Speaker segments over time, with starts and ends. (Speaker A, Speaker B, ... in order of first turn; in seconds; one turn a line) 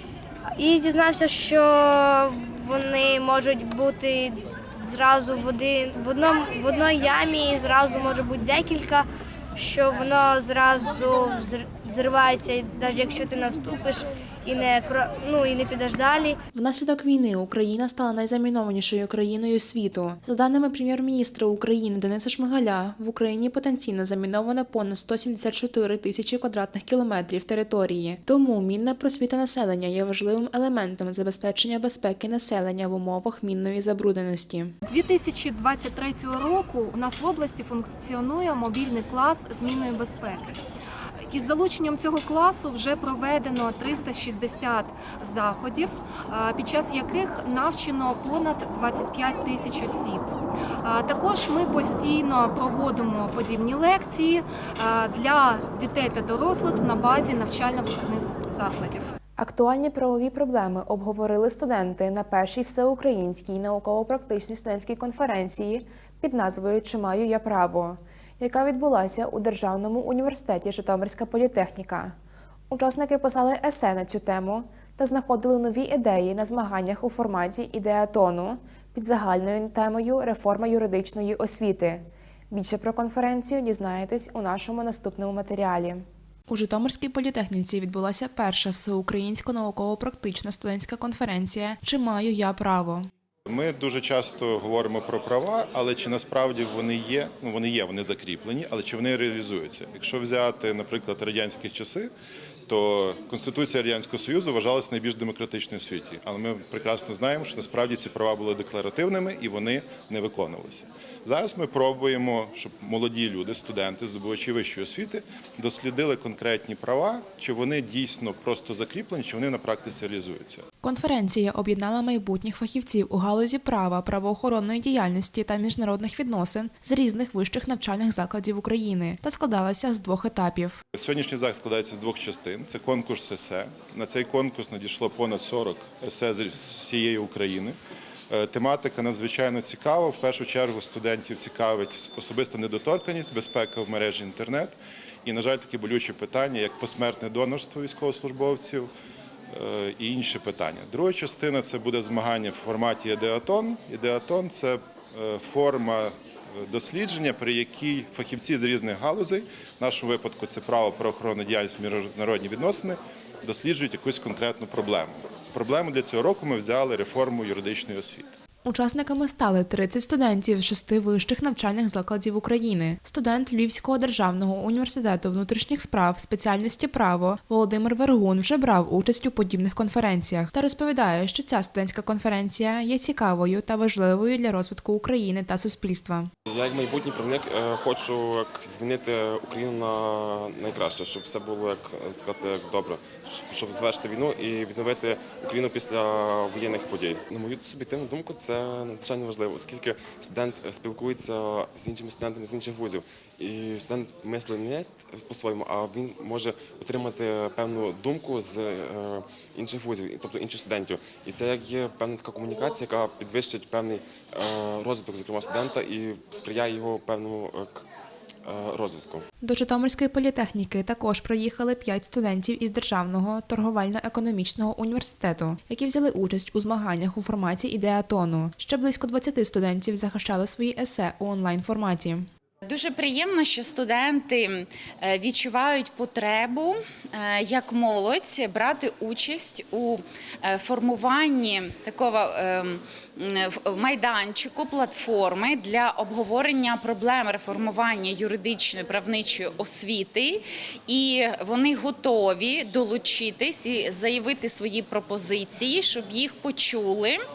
Speaker A: 0.6-16.4
Speaker B: 16.5-34.7
Speaker C: 34.9-40.6
Speaker C: 41.2-50.3
Speaker C: 50.8-59.1
Speaker B: 59.4-72.2
Speaker B: 72.7-93.1
Speaker D: 93.5-102.1
Speaker D: 102.7-120.7
Speaker B: 120.8-130.8
Speaker D: 130.9-137.8
Speaker D: 138.3-148.9
Speaker D: 149.5-168.3
Speaker B: 168.6-186.3
Speaker E: 186.5-217.9
Speaker E: 218.4-219.3
Speaker B: 219.4-232.3
Speaker F: 232.6-257.2